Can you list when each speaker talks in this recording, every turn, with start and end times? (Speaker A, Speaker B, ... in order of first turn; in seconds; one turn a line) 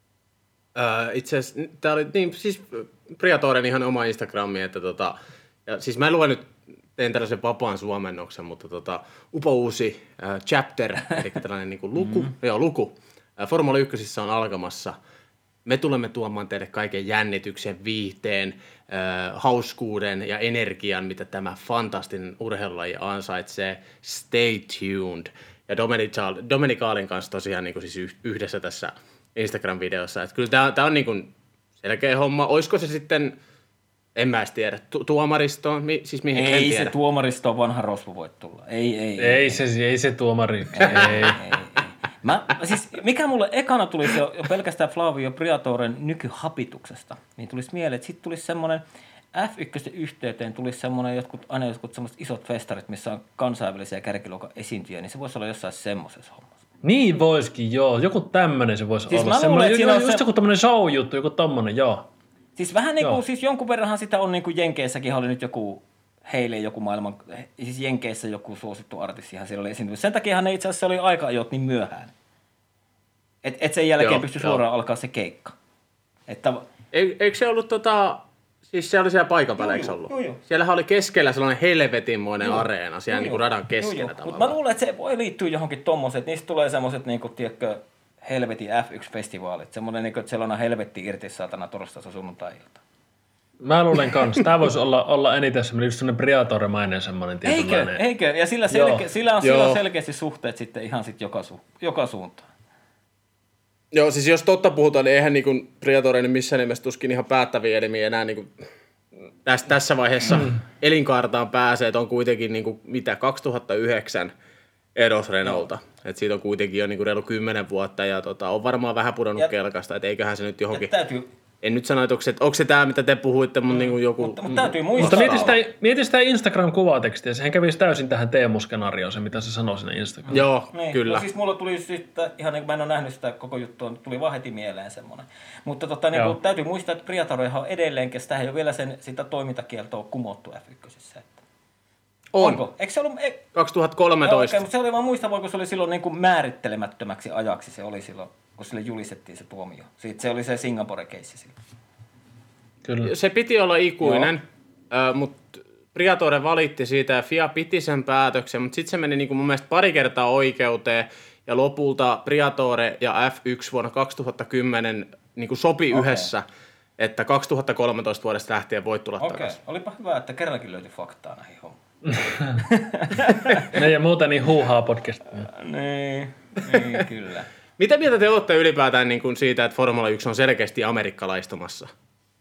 Speaker A: 0.8-15.0
Speaker A: 15.7-33.4
Speaker A: 34.2-36.9
Speaker B: 36.3-39.6
Speaker C: 39.2-41.4
Speaker B: 40.8-48.8
Speaker B: 49.3-56.5
Speaker C: 56.8-62.1
Speaker B: 59.1-60.2
Speaker B: 62.6-72.1
Speaker B: 73.4-75.5
Speaker A: 74.0-74.6
Speaker B: 76.3-76.7
Speaker A: 76.9-84.6
Speaker B: 79.6-80.4
Speaker B: 82.4-92.8
Speaker C: 93.6-98.0
Speaker B: 97.5-102.5
Speaker C: 98.7-99.1
Speaker A: 99.4-99.8
Speaker A: 103.9-108.5
Speaker A: 109.5-114.3
Speaker A: 115.0-120.9
Speaker B: 120.7-121.3
Speaker A: 121.6-125.5
Speaker B: 123.7-125.6
Speaker C: 125.0-130.4
Speaker A: 130.3-131.3
Speaker B: 130.7-141.4
Speaker A: 142.3-142.6
Speaker B: 142.4-143.5
Speaker A: 143.6-144.6
Speaker B: 144.2-151.6
Speaker A: 153.0-166.4
Speaker B: 154.0-154.3
Speaker B: 165.9-166.3
Speaker A: 167.0-169.6
Speaker B: 169.2-171.8
Speaker C: 172.1-172.6
Speaker B: 172.6-173.8
Speaker C: 173.7-175.5
Speaker B: 175.5-177.5
Speaker A: 177.8-181.9